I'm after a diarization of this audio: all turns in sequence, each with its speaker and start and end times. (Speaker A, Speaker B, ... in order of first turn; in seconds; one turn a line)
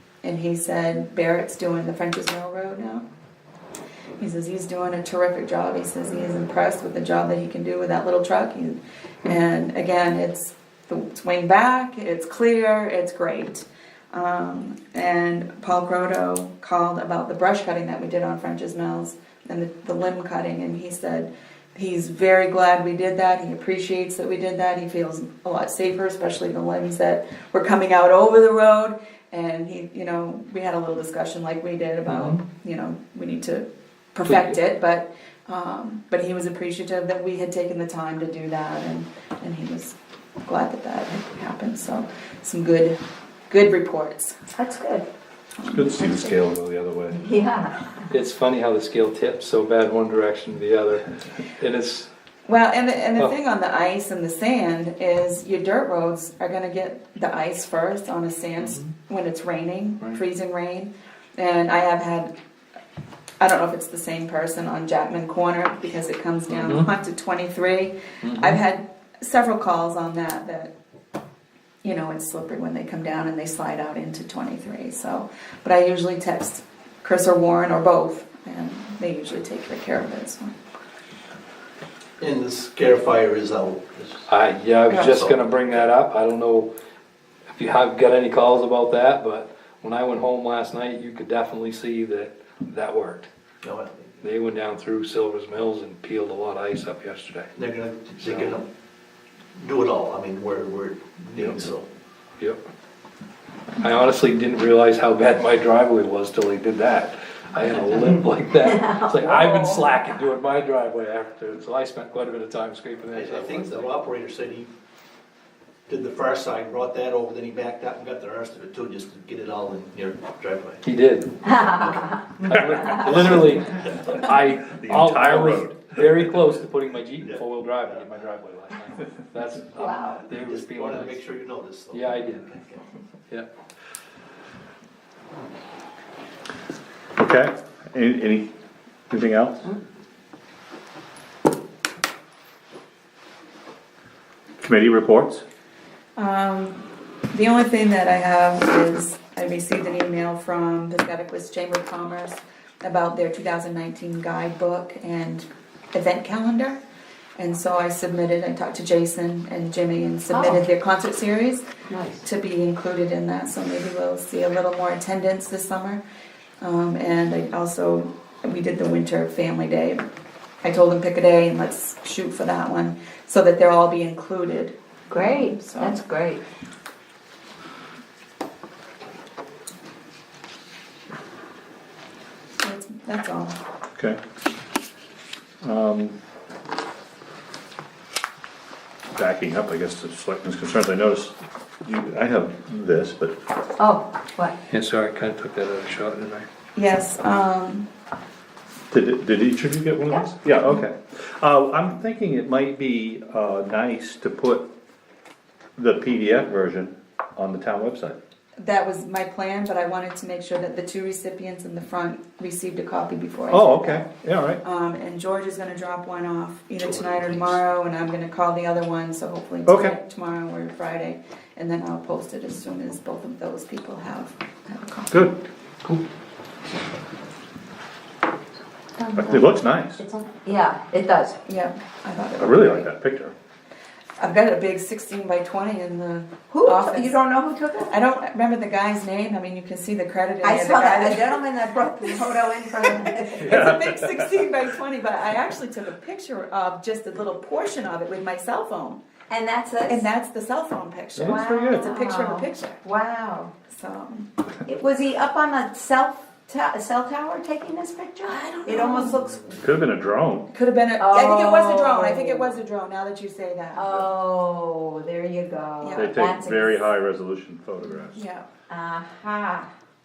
Speaker A: 0.2-3.0
Speaker A: 4.2-44.4
Speaker B: 32.1-32.4
Speaker C: 44.5-45.1
Speaker A: 45.6-46.4
Speaker D: 45.6-47.2
Speaker C: 47.1-48.0
Speaker B: 48.1-52.1
Speaker A: 52.5-62.3
Speaker A: 63.4-70.7
Speaker B: 66.5-66.9
Speaker B: 68.2-68.6
Speaker A: 71.8-80.5
Speaker E: 82.2-84.3
Speaker B: 84.2-86.7
Speaker E: 84.9-85.8
Speaker B: 87.5-93.3
Speaker E: 93.6-94.2
Speaker B: 94.2-97.5
Speaker E: 97.5-98.7
Speaker B: 98.2-98.5
Speaker E: 99.5-101.8
Speaker B: 101.4-101.7
Speaker B: 103.8-113.9
Speaker C: 108.6-109.8
Speaker E: 113.1-114.7
Speaker E: 115.9-120.8
Speaker B: 120.8-121.8
Speaker C: 121.4-123.1
Speaker B: 122.4-131.2
Speaker D: 124.7-126.3
Speaker E: 127.2-128.1
Speaker C: 129.8-130.2
Speaker E: 130.3-132.8
Speaker B: 131.9-132.5
Speaker D: 137.2-138.5
Speaker D: 139.1-139.7
Speaker D: 144.6-145.4
Speaker A: 146.2-156.8
Speaker A: 157.4-161.6
Speaker C: 160.3-160.6
Speaker C: 161.9-162.2
Speaker A: 162.2-166.0
Speaker A: 166.6-170.0
Speaker A: 170.6-176.0
Speaker C: 175.1-176.4
Speaker A: 182.6-183.6
Speaker D: 185.6-186.2
Speaker D: 189.1-193.4
Speaker C: 193.8-194.5
Speaker B: 194.7-196.4
Speaker A: 196.8-197.9
Speaker D: 198.9-204.7
Speaker C: 200.1-200.3
Speaker D: 205.8-208.2
Speaker A: 208.6-214.1
Speaker D: 213.5-214.6
Speaker A: 214.6-225.3
Speaker E: 216.8-217.6
Speaker D: 219.7-219.9
Speaker D: 225.1-225.4
Speaker C: 229.0-231.4
Speaker D: 229.1-230.0
Speaker A: 231.4-232.9
Speaker D: 232.4-233.3
Speaker A: 234.2-237.2
Speaker C: 236.5-237.9
Speaker A: 237.9-241.4
Speaker C: 240.4-243.6
Speaker A: 242.0-249.0
Speaker D: 243.4-244.1
Speaker C: 249.3-250.1
Speaker A: 249.9-252.8
Speaker D: 251.1-251.9
Speaker C: 251.2-253.5
Speaker A: 253.7-254.3
Speaker C: 254.7-259.6
Speaker A: 258.4-259.2
Speaker D: 259.6-260.5
Speaker A: 260.5-264.1
Speaker C: 261.0-262.6
Speaker C: 263.7-266.8
Speaker A: 265.8-266.2
Speaker D: 265.9-268.2
Speaker A: 268.1-268.5
Speaker C: 268.7-269.7